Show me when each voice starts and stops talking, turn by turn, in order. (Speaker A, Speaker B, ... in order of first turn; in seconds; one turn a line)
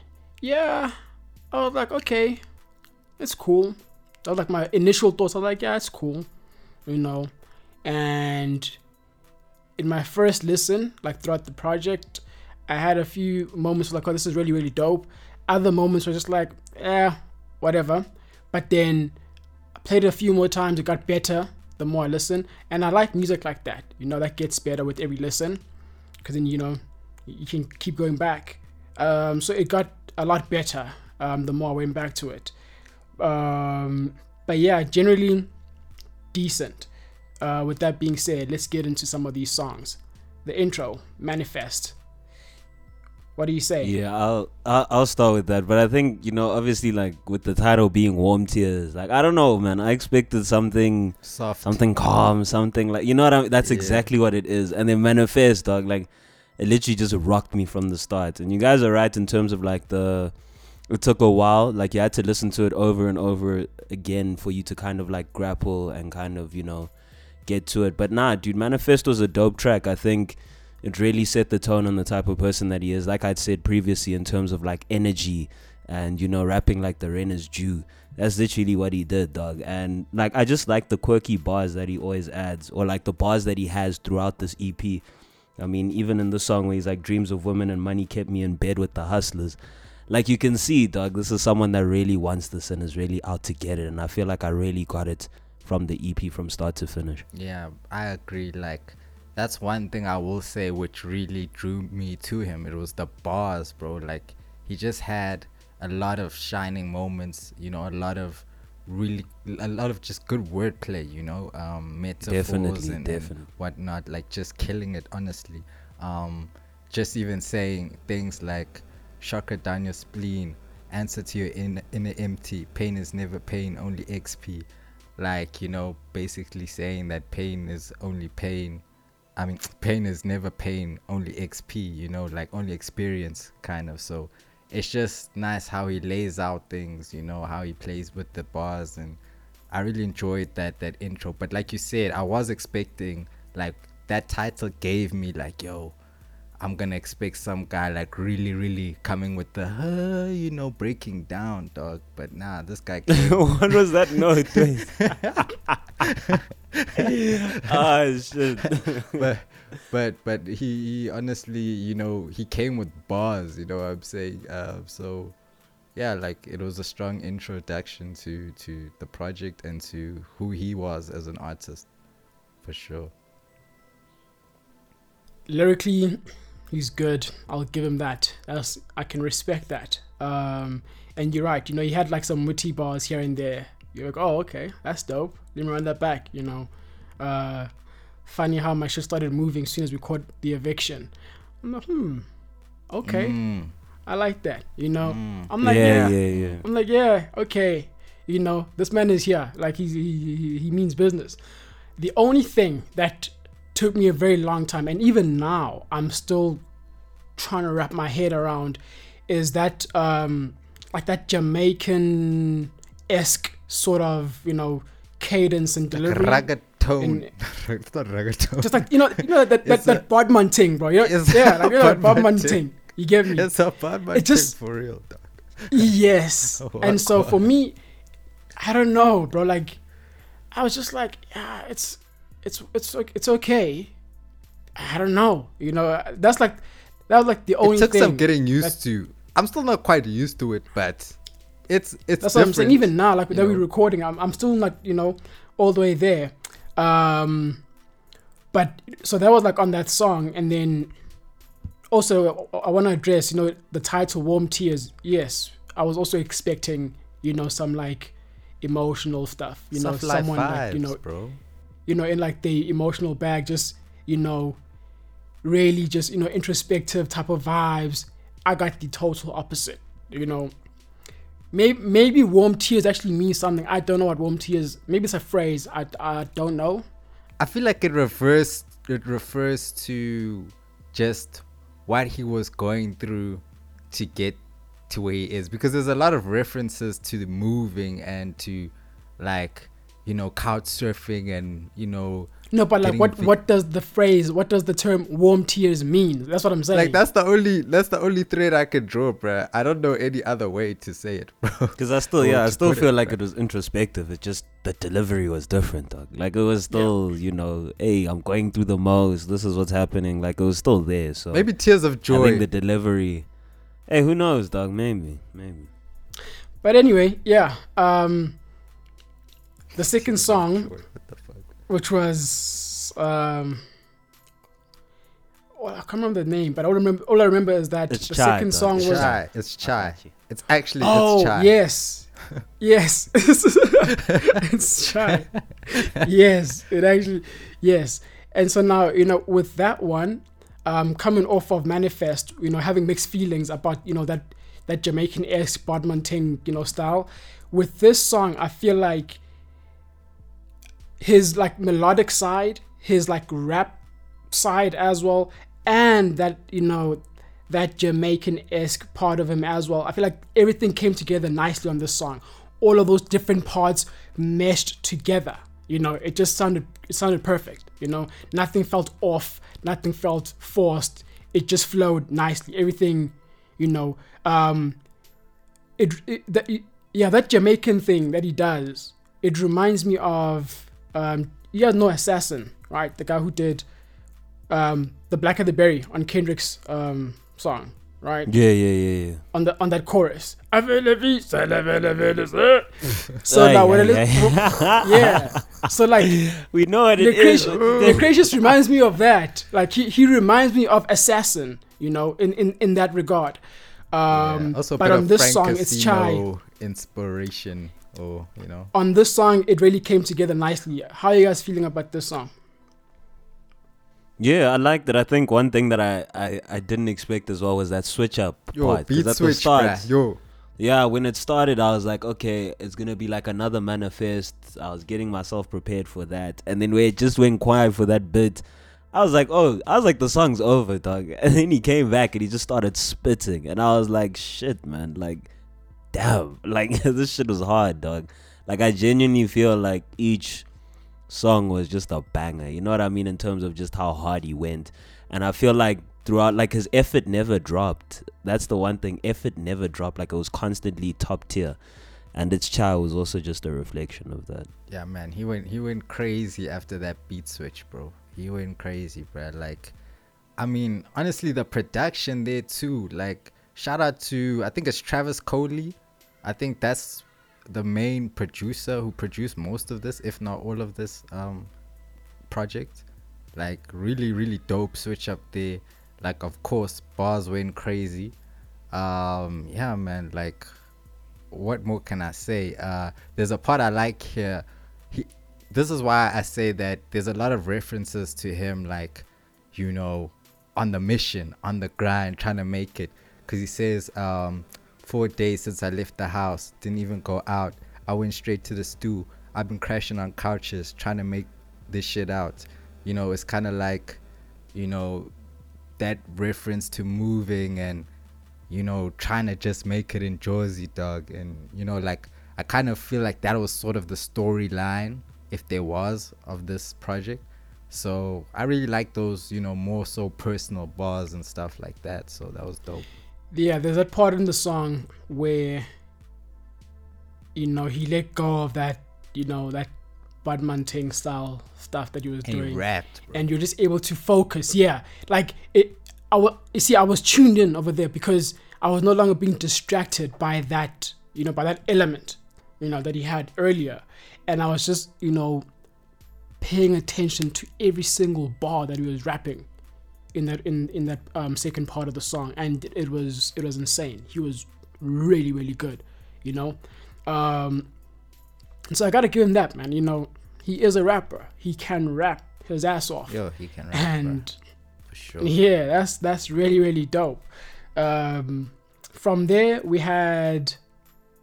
Speaker A: 0.4-0.9
Speaker A: 1.5-2.4
Speaker A: 3.2-6.3
Speaker A: 6.9-7.3
Speaker A: 7.8-8.8
Speaker A: 9.8-19.1
Speaker A: 19.8-25.6
Speaker A: 26.2-32.5
Speaker A: 33.2-35.5
Speaker A: 36.3-36.9
Speaker A: 37.4-41.9
Speaker A: 43.4-43.9
Speaker B: 43.8-60.3
Speaker C: 51.2-51.8
Speaker C: 53.6-54.1
Speaker B: 60.9-66.9
Speaker B: 67.5-85.0
Speaker B: 85.6-89.6
Speaker B: 90.1-97.2
Speaker C: 97.3-124.7
Speaker B: 112.2-113.5
Speaker C: 125.2-128.8
Speaker C: 129.4-139.2
Speaker C: 139.7-145.9
Speaker C: 146.6-155.4
Speaker B: 153.1-155.8
Speaker C: 156.0-157.9
Speaker B: 157.0-159.2
Speaker C: 159.1-165.3
Speaker C: 165.9-171.8
Speaker C: 172.6-173.1
Speaker A: 175.5-176.2
Speaker A: 176.7-187.7
Speaker A: 188.2-192.2
Speaker A: 192.9-193.4
Speaker C: 193.0-193.7
Speaker A: 194.1-201.4
Speaker C: 195.0-196.6
Speaker B: 195.6-196.6
Speaker A: 202.0-206.6
Speaker A: 207.3-216.5
Speaker C: 216.0-220.0
Speaker A: 217.0-217.3
Speaker A: 218.6-223.5
Speaker C: 221.0-222.6
Speaker C: 223.2-225.9
Speaker A: 224.1-224.5
Speaker A: 225.7-227.8
Speaker C: 226.6-227.4
Speaker A: 228.6-229.8
Speaker A: 230.5-233.9
Speaker A: 234.8-238.7
Speaker C: 237.6-241.2
Speaker C: 241.7-243.6
Speaker A: 242.2-247.6
Speaker A: 248.5-250.9
Speaker A: 251.9-261.0
Speaker C: 259.7-261.4
Speaker A: 261.9-264.6
Speaker A: 265.4-270.5
Speaker A: 271.5-276.8
Speaker C: 277.4-293.3
Speaker A: 292.5-297.0
Speaker C: 296.7-303.1
Speaker B: 301.8-311.5
Speaker C: 311.3-312.4
Speaker B: 312.1-313.3
Speaker B: 313.9-315.7
Speaker A: 316.6-318.4
Speaker A: 319.8-320.7
Speaker C: 319.9-321.5
Speaker A: 321.7-323.6
Speaker A: 325.6-329.1
Speaker B: 327.9-330.1
Speaker C: 328.7-331.5
Speaker A: 330.8-332.1
Speaker A: 332.6-349.2
Speaker A: 351.0-353.8
Speaker A: 354.3-374.8
Speaker A: 375.8-383.6
Speaker A: 384.5-388.3
Speaker B: 388.3-389.2
Speaker A: 389.3-396.1
Speaker B: 393.3-395.3
Speaker B: 396.0-398.5
Speaker A: 397.0-403.4
Speaker C: 397.7-398.0
Speaker A: 403.9-406.2
Speaker C: 404.1-408.7
Speaker A: 408.7-412.3
Speaker B: 414.2-419.9
Speaker C: 418.5-420.2
Speaker B: 420.6-428.4
Speaker B: 428.9-435.3
Speaker B: 435.9-440.4
Speaker B: 441.1-451.6
Speaker B: 452.1-454.5
Speaker C: 454.7-459.7
Speaker C: 460.4-471.5
Speaker C: 472.3-472.8
Speaker C: 473.3-478.1
Speaker C: 478.7-480.5
Speaker C: 481.3-504.0
Speaker C: 504.5-505.1
Speaker C: 505.8-507.9
Speaker C: 508.5-522.9
Speaker A: 523.3-525.7
Speaker A: 527.3-529.7
Speaker A: 530.2-545.4
Speaker C: 532.2-533.2
Speaker A: 546.4-549.5
Speaker A: 550.1-557.7
Speaker A: 558.7-563.2
Speaker C: 563.1-564.2
Speaker A: 563.7-564.3
Speaker C: 564.9-565.3
Speaker A: 565.2-570.6